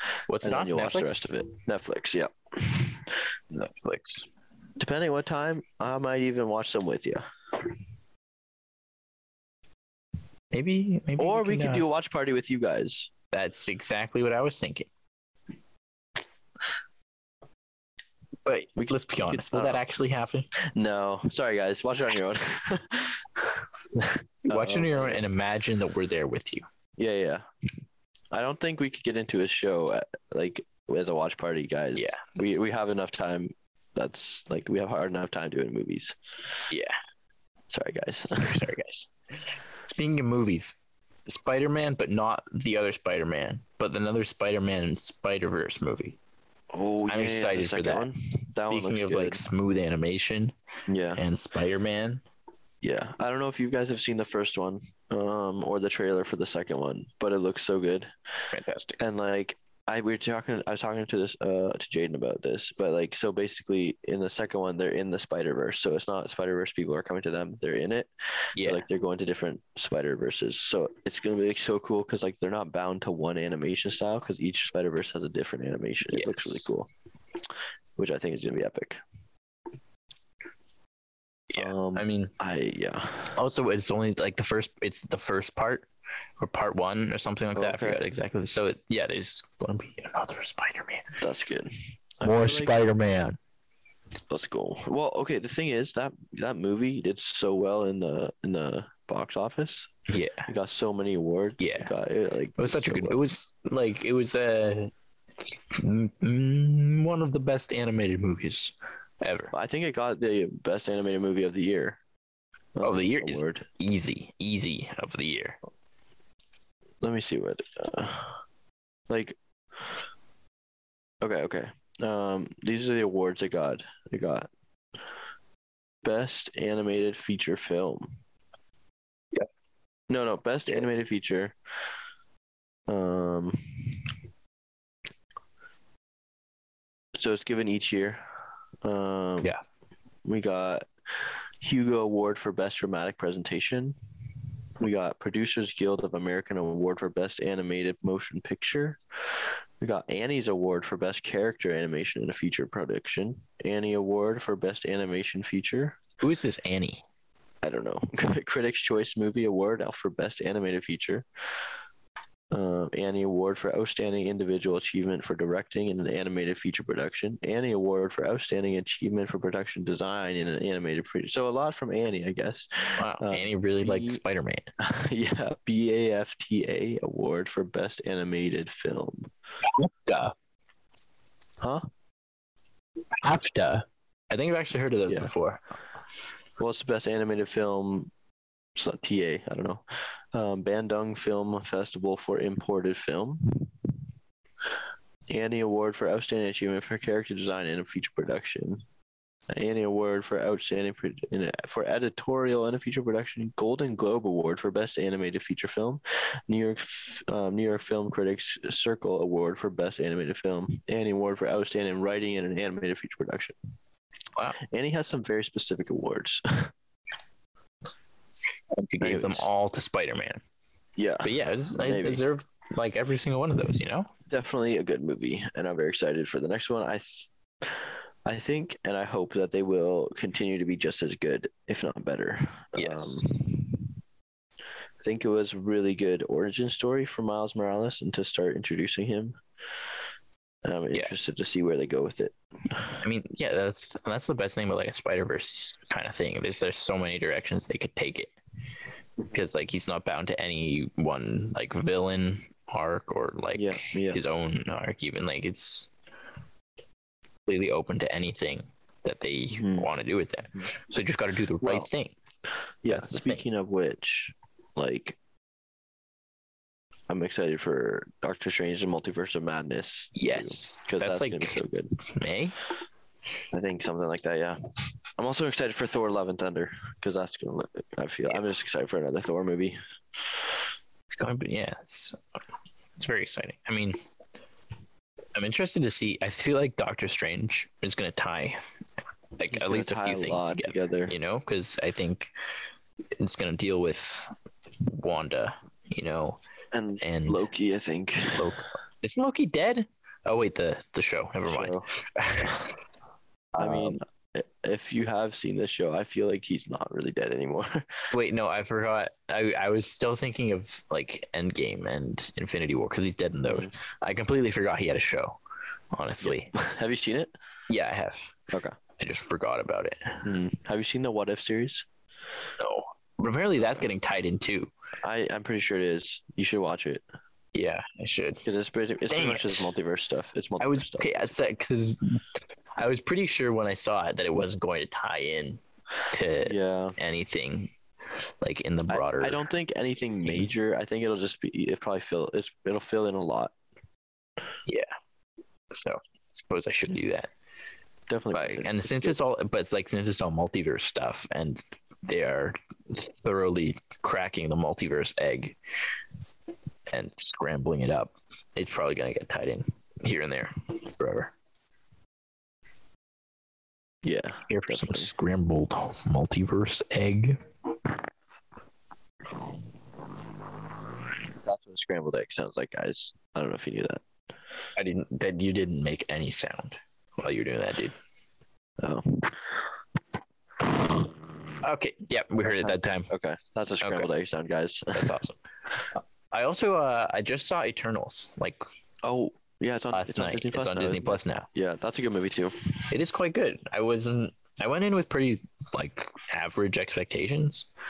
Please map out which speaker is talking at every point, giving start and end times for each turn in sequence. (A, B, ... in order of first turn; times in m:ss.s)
0:00.3-0:01.2 A
0:00.4-0:03.1 B
0:03.5-0:04.3 A
0:04.8-0:07.3 B
0:10.5-0:11.8 A
0:11.2-0:13.1 B
0:13.3-0:14.9 A
0:18.5-0:20.5 A
0:18.8-0:19.8 B
0:20.6-0:25.3 B
0:24.5-0:26.6 A
0:27.0-0:27.4 B
0:28.3-0:36.2 B
0:32.0-0:32.5 A
0:36.7-0:37.0 A
0:37.7-0:38.6 B
0:38.3-0:39.1 A
0:39.8-0:46.2 A
0:46.7-0:49.4 B
0:47.1-0:48.1 A
0:48.7-0:50.5 A
0:50.9-0:51.2 B
0:51.2-0:52.2 A
0:52.8-0:58.1 B
0:58.5-0:59.0 A
0:59.0-1:16.9 B
1:08.6-1:08.8 A
1:16.1-1:16.7 A
1:18.0-1:19.0 B
1:21.5-1:22.3 A
1:21.6-1:23.4 B
1:23.4-1:25.9 A
1:26.4-1:31.2 A
1:27.6-1:28.0 B
1:31.2-1:32.8 B
1:32.2-1:33.4 A
1:34.3-1:39.9 B
1:40.1-1:40.5 A
1:40.5-1:43.2 B
1:41.6-1:41.9 A
1:42.6-1:44.9 A
1:45.7-1:49.5 A
1:49.5-1:52.0 B
1:52.8-1:53.6 B
1:52.8-1:55.6 A
1:57.0-1:58.4 B
1:59.1-1:59.4 B
2:01.2-2:04.5 B
2:06.0-2:08.1 B
2:10.1-2:11.6 B
2:12.9-2:14.0 B
2:17.2-2:18.2 B
2:18.8-2:19.5 B
2:20.2-2:20.9 B
2:21.6-2:24.0 B
2:24.8-2:29.0 B
2:29.8-2:36.0 B
2:36.2-2:37.0 A
2:37.6-2:41.3 B
2:42.5-2:54.2 B
2:53.0-2:54.7 A
2:54.8-2:59.3 B
2:59.7-3:00.3 A
3:03.2-3:05.6 A
3:06.6-3:08.1 B
3:08.8-3:13.8 B
3:15.3-3:18.8 B
3:19.5-3:33.6 B
3:34.6-3:36.7 B
3:38.7-3:40.4 A
3:39.0-3:39.5 B
3:41.0-3:42.2 B
3:41.2-3:44.1 A
3:44.3-3:53.8 B
3:52.8-3:53.3 A
3:55.0-3:59.4 B
4:00.6-4:03.0 B
4:03.0-4:08.4 A
4:09.3-4:15.9 A
4:13.6-4:14.2 B
4:17.5-4:22.2 A
4:19.5-4:19.9 B
4:21.6-4:21.9 B
4:22.8-4:25.2 B
4:22.9-4:23.4 A
4:27.1-4:32.0 B
4:30.2-4:32.6 A
4:33.5-4:34.6 B
4:35.2-4:39.8 B
4:41.2-4:42.2 A
4:43.0-4:44.0 A
4:45.4-4:48.6 A
4:49.4-4:52.3 A
4:49.5-4:51.1 B
4:53.2-4:54.3 A
4:54.9-4:56.4 A
4:56.7-4:58.5 B
4:57.0-4:57.4 A
4:58.4-5:02.7 A
5:01.4-5:01.9 B
5:03.6-5:04.0 A
5:03.6-5:07.9 B
5:08.1-5:15.4 A
5:13.5-5:13.7 B
5:15.9-5:16.5 A
5:16.2-5:17.3 B
5:17.7-5:18.4 A
5:18.5-5:18.8 B
5:19.0-5:20.2 A
5:20.2-5:21.9 B
5:22.6-5:24.7 A
5:25.0-5:27.0 B
5:27.5-5:28.5 A
5:28.4-5:31.1 B
5:29.1-5:29.7 A
5:30.6-5:32.2 A
5:32.8-5:37.7 A
5:36.4-5:37.0 B
5:38.4-5:39.4 A
5:38.9-5:43.5 B
5:40.2-5:40.5 A
5:45.7-5:47.3 A
5:48.1-5:49.2 B
5:48.3-5:55.6 A
5:56.9-6:01.3 A
6:04.0-6:05.1 B
6:04.5-6:07.4 A
6:11.4-6:14.0 B
6:14.8-6:18.0 A
6:18.8-6:19.6 B
6:20.8-6:21.1 B
6:21.6-6:23.1 A
6:22.5-6:25.1 B
6:23.8-6:24.1 A
6:24.9-6:25.4 A
6:26.3-6:28.6 A
6:29.0-6:32.8 B
6:29.9-6:31.5 A
6:32.9-6:37.7 A